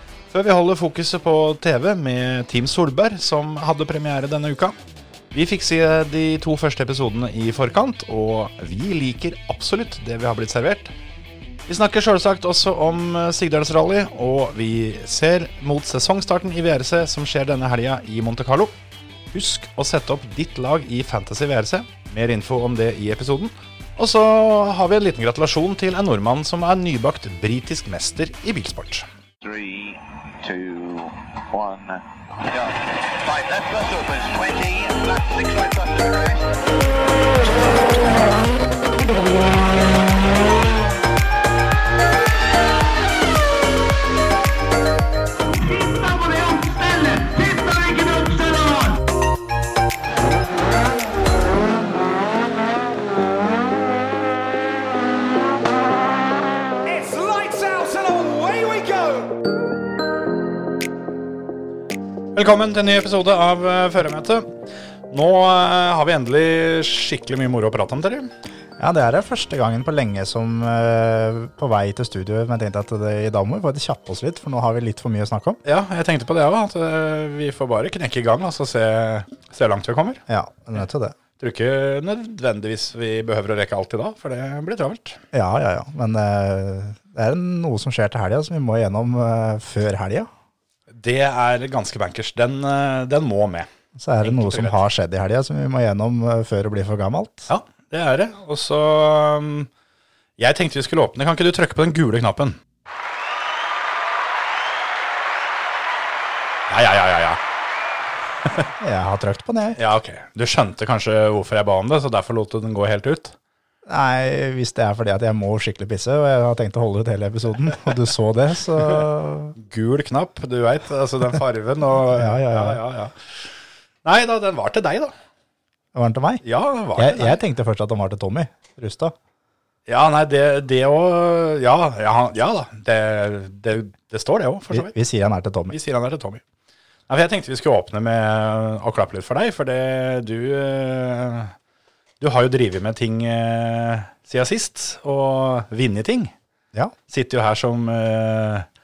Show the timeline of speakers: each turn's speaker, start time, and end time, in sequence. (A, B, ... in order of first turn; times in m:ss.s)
0:00.3-0:04.8 A
0:05.3-0:11.0 A
0:11.7-0:18.8 A
0:19.3-0:29.1 A
0:29.4-0:36.6 B
0:37.6-0:38.3 B
0:45.5-0:48.8 B
0:56.9-0:59.3 C
1:02.4-1:04.5 A
1:05.1-1:08.3 A
1:08.8-1:15.6 D
1:15.6-1:20.2 A
1:20.3-1:21.2 D
1:21.4-1:25.2 A
1:25.3-1:30.3 D
1:30.9-1:33.7 A
1:34.0-1:37.5 D
1:34.2-1:34.8 A
1:37.5-1:39.7 A
1:40.4-1:42.6 A
1:46.7-1:47.4 A
1:48.4-1:48.7 A
1:48.8-1:49.8 D
1:49.8-1:53.4 A
1:53.9-1:59.6 D
1:59.6-2:03.5 A
2:02.1-2:02.8 D
2:04.0-2:05.1 A
2:05.9-2:06.4 D
2:06.4-2:07.4 A
2:07.0-2:09.2 D
2:09.9-2:15.0 A
2:14.7-2:15.8 D
2:15.7-2:16.4 A
2:17.1-2:21.5 A
2:22.2-2:26.3 A
2:27.1-2:28.7 A